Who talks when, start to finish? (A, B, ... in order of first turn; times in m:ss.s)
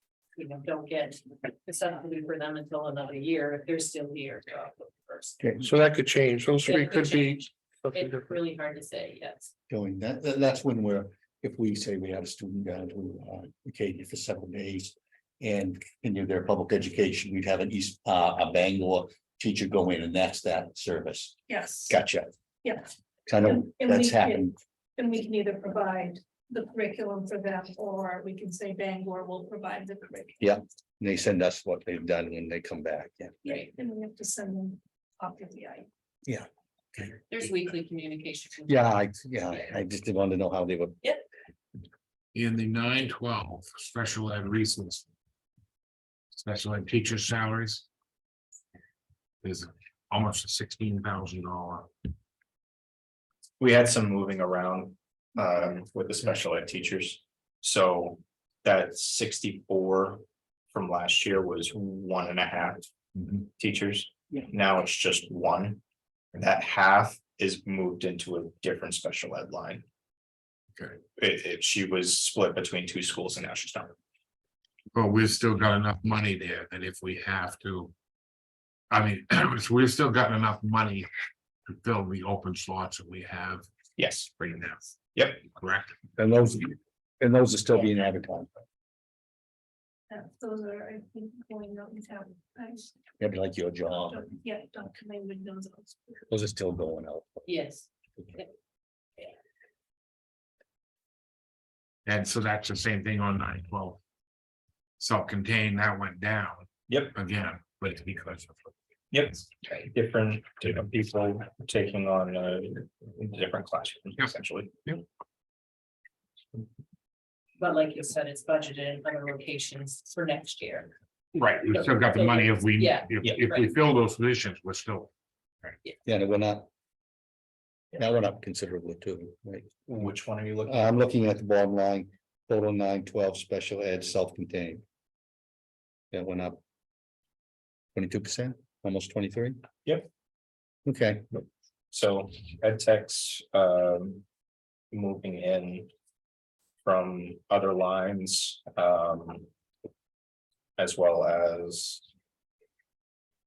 0:00.3-0:05.4 A
0:05.6-0:08.3 B
0:06.6-0:09.5 A
0:09.7-0:21.4 C
0:21.5-0:22.0 D
0:21.9-0:22.3 C
0:23.3-0:24.5 C
0:23.5-0:30.4 D
0:30.4-0:33.4 C
0:33.4-0:35.9 D
0:37.3-0:38.8 A
0:38.7-0:41.0 C
0:42.3-0:45.0 E
0:46.3-0:47.9 E
0:49.4-0:51.9 E
0:53.6-1:05.8 F
1:06.3-1:09.8 F
1:11.2-1:13.9 F
1:14.9-1:17.9 E
1:18.9-1:21.1 E
1:21.7-1:23.6 E
1:24.0-1:24.5 F
1:24.4-1:24.8 E
1:25.1-1:25.5 F
1:25.4-1:26.0 E
1:26.2-1:28.5 C
1:30.1-1:33.0 D
1:33.2-1:34.3 C
1:34.1-1:36.2 D
1:36.3-1:37.5 C
1:37.4-1:38.5 A
1:42.0-1:44.0 E
1:45.0-1:48.7 E
1:46.9-1:47.1 F
1:49.1-1:54.7 F
1:57.6-2:00.9 A
2:01.3-2:05.1 E
2:01.7-2:03.1 A
2:03.2-2:03.5 F
2:06.0-2:06.7 C
2:07.9-2:10.0 C
2:09.9-2:10.9 F
2:10.6-2:14.8 C
2:16.1-2:16.6 C
2:17.9-2:19.6 C
2:20.8-2:21.4 C
2:21.9-2:24.2 F
2:24.9-2:25.9 F
2:26.8-2:29.5 F
2:30.8-2:32.0 F